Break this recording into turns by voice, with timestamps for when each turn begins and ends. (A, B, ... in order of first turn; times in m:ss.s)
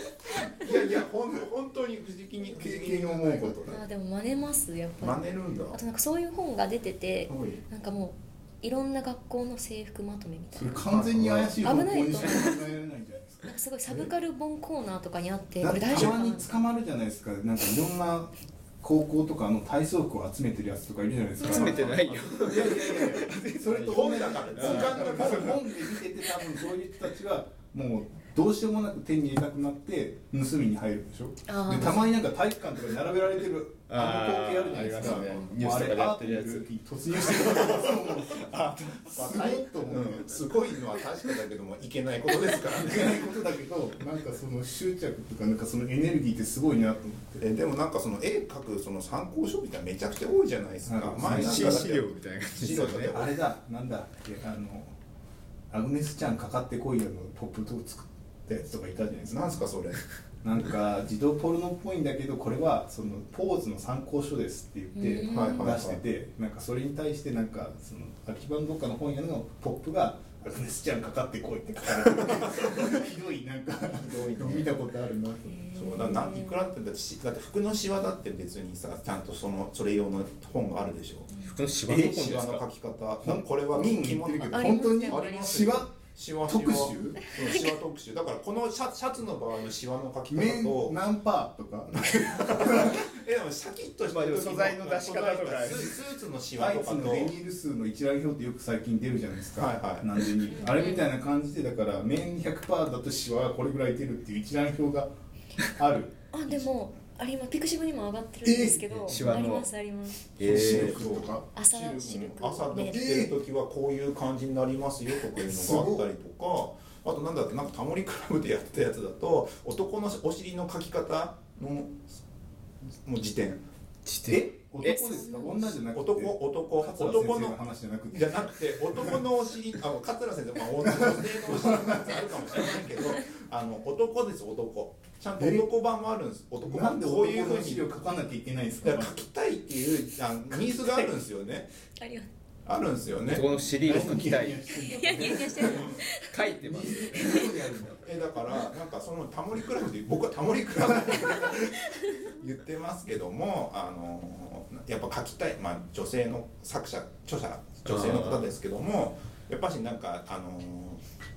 0:00.4-0:03.8 A
0:02.5-0:03.6 B
0:03.6-0:10.8 C
0:05.0-0:05.8 A
0:07.3-0:07.6 A
0:10.6-0:14.1 B
0:10.9-0:11.5 A
0:11.6-0:12.6 C
0:13.4-0:16.5 C
0:15.6-0:40.4 B
0:21.4-0:21.8 C
0:21.4-0:26.4 D
0:22.0-0:23.2 A
0:23.8-0:25.6 A
0:31.4-0:32.2 C
0:33.9-0:36.6 D
0:37.2-0:40.2 D
0:39.1-0:43.3 A
0:42.8-0:47.4 B
0:47.4-0:53.4 A
0:50.8-0:51.8 B
0:51.2-0:53.2 D
0:53.1-0:55.0 B
0:55.7-0:59.7 B
0:59.3-1:00.0 A
1:00.4-1:15.6 B
1:04.9-1:05.8 C
1:05.2-1:06.0 A
1:14.0-1:14.8 A
1:15.4-1:16.6 C
1:15.7-1:21.3 A
1:21.3-1:21.6 C
1:21.4-1:22.6 D
1:21.9-1:31.0 A
1:23.2-1:25.9 B
1:24.5-1:25.6 C
1:26.4-1:27.2 B
1:27.2-1:27.7 C
1:30.2-1:33.0 B
1:32.0-1:37.4 A
1:34.1-1:35.9 D
1:36.6-1:45.1 B
1:39.5-1:40.1 A
1:40.5-1:41.1 C
1:45.7-1:46.1 B
1:46.3-1:50.4 C
1:48.4-1:49.3 B
1:48.9-1:49.7 D
1:50.4-1:51.1 D
1:50.4-1:51.4 B
1:50.4-2:02.0 A
1:51.5-1:53.2 C
1:52.9-1:53.3 B
1:55.4-1:56.0 B
2:03.0-2:03.6 A
2:04.0-2:05.4 D
2:04.3-2:09.2 B
2:04.8-2:05.7 C
2:05.8-2:07.6 A
2:08.1-2:17.8 A
2:11.0-2:12.2 B
2:15.4-2:15.6 B
2:16.6-2:19.2 B
2:18.8-2:21.7 A
2:22.0-2:22.3 C
2:22.6-2:24.2 A
2:23.3-2:24.6 D
2:23.8-2:26.1 B
2:24.7-2:26.5 C
2:25.2-2:25.5 D
2:25.6-2:26.0 A
2:26.2-2:27.8 D
2:26.6-2:28.1 B
2:27.1-2:27.5 C
2:28.0-2:41.0 A
2:31.3-2:32.3 C
2:37.9-2:38.4 D